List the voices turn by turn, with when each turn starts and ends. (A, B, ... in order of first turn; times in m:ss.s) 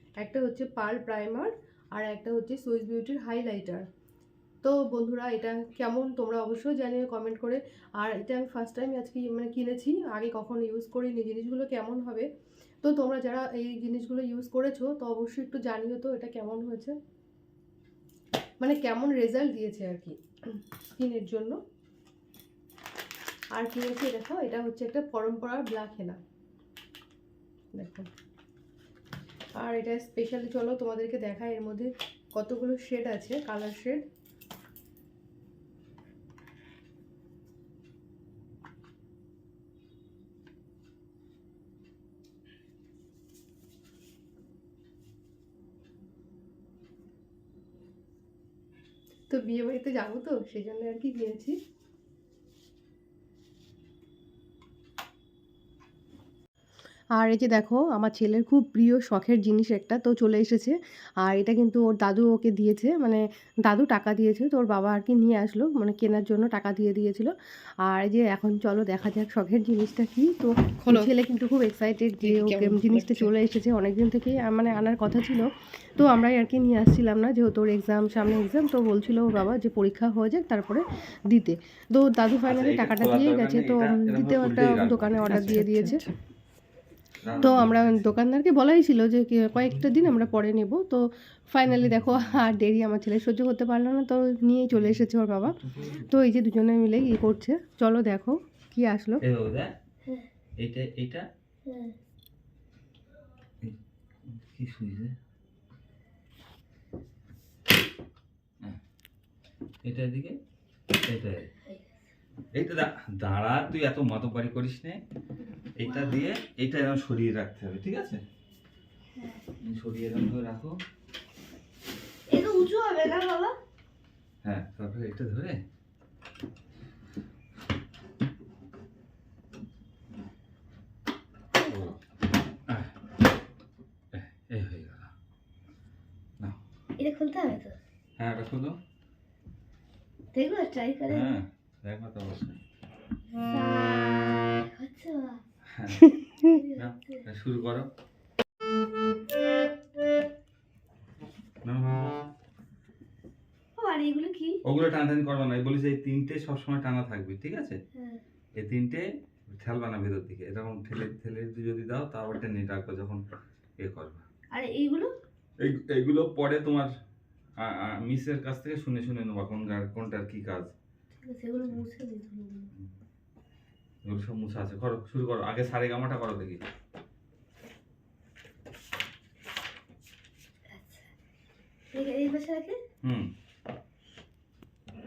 0:00.2-0:03.8 A
0:04.6-0:12.3 A
0:12.8-0:16.9 A
0:18.8-0:20.1 A
0:21.0-0:21.4 A
0:21.2-0:21.6 B
0:23.6-0:26.1 A
0:27.8-0:28.1 B
0:29.6-0:34.0 A
0:49.3-0:51.6 A
0:57.2-1:07.3 B
1:07.9-1:26.0 B
1:10.8-1:11.1 A
1:12.2-1:13.3 A
1:22.5-1:25.7 C
1:24.2-1:24.5 A
1:25.3-1:26.1 A
1:27.2-1:28.2 C
1:27.4-1:28.3 A
1:27.4-1:29.4 B
1:29.4-1:30.4 A
1:30.0-1:31.0 B
1:31.5-1:35.4 B
1:31.7-1:32.5 A
1:34.8-1:35.4 A
1:35.5-1:36.1 C
1:36.1-1:39.2 B
1:39.2-1:39.7 C
1:40.6-1:41.2 C
1:41.7-1:42.0 D
1:43.6-1:45.2 C
1:49.8-1:50.4 C
1:50.9-1:51.5 C
1:52.5-1:55.0 C
1:55.8-1:58.2 C
1:55.8-1:56.2 D
1:59.2-1:59.4 D
1:59.6-2:00.8 C
2:02.3-2:03.6 D
2:04.4-2:05.6 C
2:11.6-2:11.9 D
2:11.7-2:12.0 C
2:12.7-2:12.9 C
2:14.1-2:15.1 C
2:17.0-2:17.8 D
2:18.2-2:18.8 C
2:20.3-2:21.4 D
2:21.1-2:22.6 C
2:23.4-2:25.4 D
2:25.7-2:26.1 C
2:26.4-2:27.2 D
2:26.7-2:27.9 C
2:31.6-2:32.2 C
2:33.8-2:34.6 D
2:34.6-2:37.8 C
2:38.0-2:38.2 D
2:38.6-2:43.2 C
2:43.8-2:44.2 C
2:44.5-2:45.1 D
2:45.6-2:46.9 C
2:47.6-2:50.7 C
2:51.2-2:52.7 D
2:54.1-2:56.6 C
3:00.7-3:01.1 D
3:01.9-3:02.8 D
3:03.0-3:03.3 C